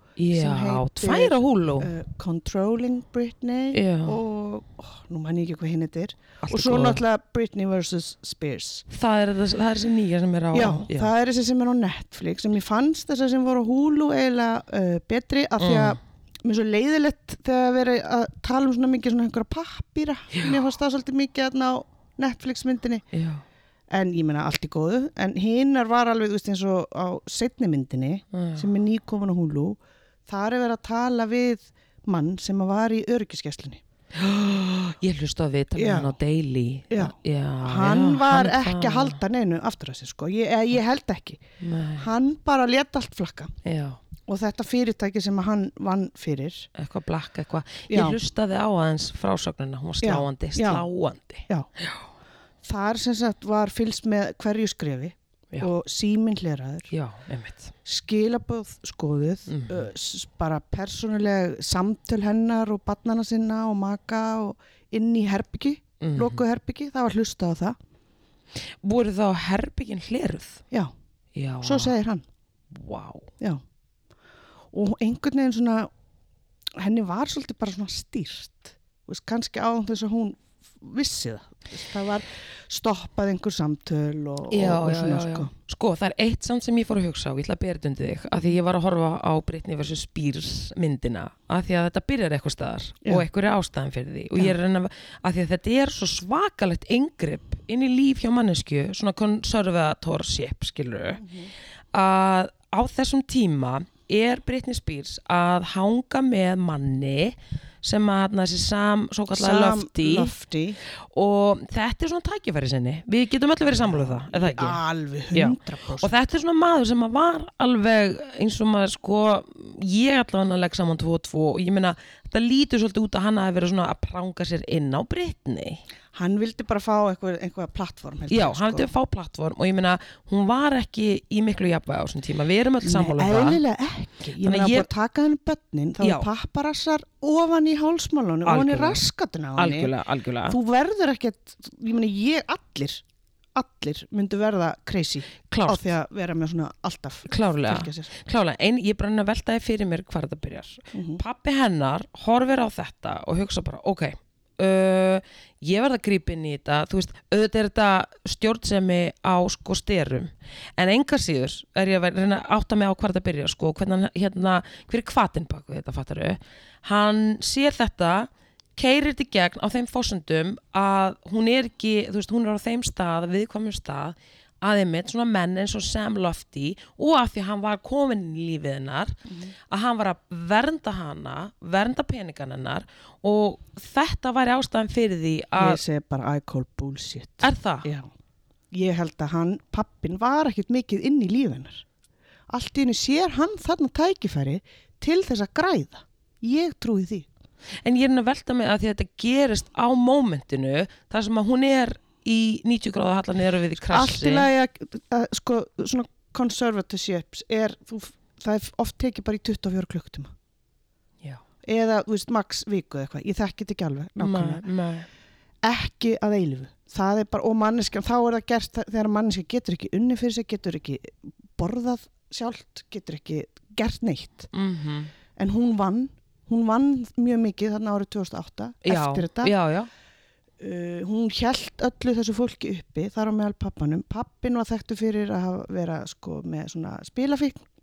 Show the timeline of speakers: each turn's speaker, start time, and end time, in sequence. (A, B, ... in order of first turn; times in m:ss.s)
0:00.2-0:01.9 A
0:00.3-0:08.8 B
0:03.7-0:04.2 A
0:06.4-0:07.0 A
0:08.9-0:11.1 A
0:10.5-0:23.0 B
0:15.6-0:16.0 A
0:20.3-0:20.6 A
0:23.1-0:23.4 A
0:23.9-0:33.8 B
0:28.3-0:28.7 A
0:34.1-0:39.2 A
0:35.8-0:36.2 B
0:36.9-0:41.4 B
0:41.6-0:42.1 A
0:42.0-0:43.5 B
0:43.6-0:44.0 A
0:44.3-0:46.7 B
0:46.7-0:52.0 A
0:47.9-0:48.2 B
0:50.0-0:50.8 B
0:52.6-0:56.9 B
0:56.9-0:57.7 A
0:57.8-1:07.8 B
0:59.5-0:59.8 A
1:06.0-1:06.4 A
1:08.8-1:10.6 A
1:11.3-1:11.9 A
1:11.6-1:12.2 B
1:12.7-1:13.3 A
1:14.7-1:15.9 B
1:16.8-1:25.5 B
1:24.5-1:41.2 A
1:41.2-1:41.5 B
1:41.9-1:50.3 A
1:49.3-1:50.8 B
1:51.1-1:54.8 A
1:53.8-1:56.1 B
1:55.3-2:05.8 A
2:06.1-2:08.9 B
2:08.3-2:13.6 A
2:12.8-2:19.9 B
2:14.4-2:14.9 A
2:16.0-2:16.3 A
2:18.4-2:19.0 A
2:19.6-2:20.6 A
2:20.5-2:23.0 B
2:23.6-2:28.1 B
2:25.5-2:25.9 A
2:27.3-2:59.2 A
2:30.9-2:31.2 B
2:59.3-2:59.5 B
2:59.7-3:05.8 A
3:05.6-3:08.1 B
3:07.4-3:07.9 A
3:08.7-3:11.8 B
3:12.5-3:17.3 B
3:17.8-3:24.5 A
3:23.9-3:30.3 B
3:31.6-3:34.6 B
3:34.2-3:35.1 A
3:35.6-3:44.5 B
3:44.5-3:45.1 A
3:45.4-3:49.5 B
3:48.8-3:49.9 A
3:50.6-3:57.6 B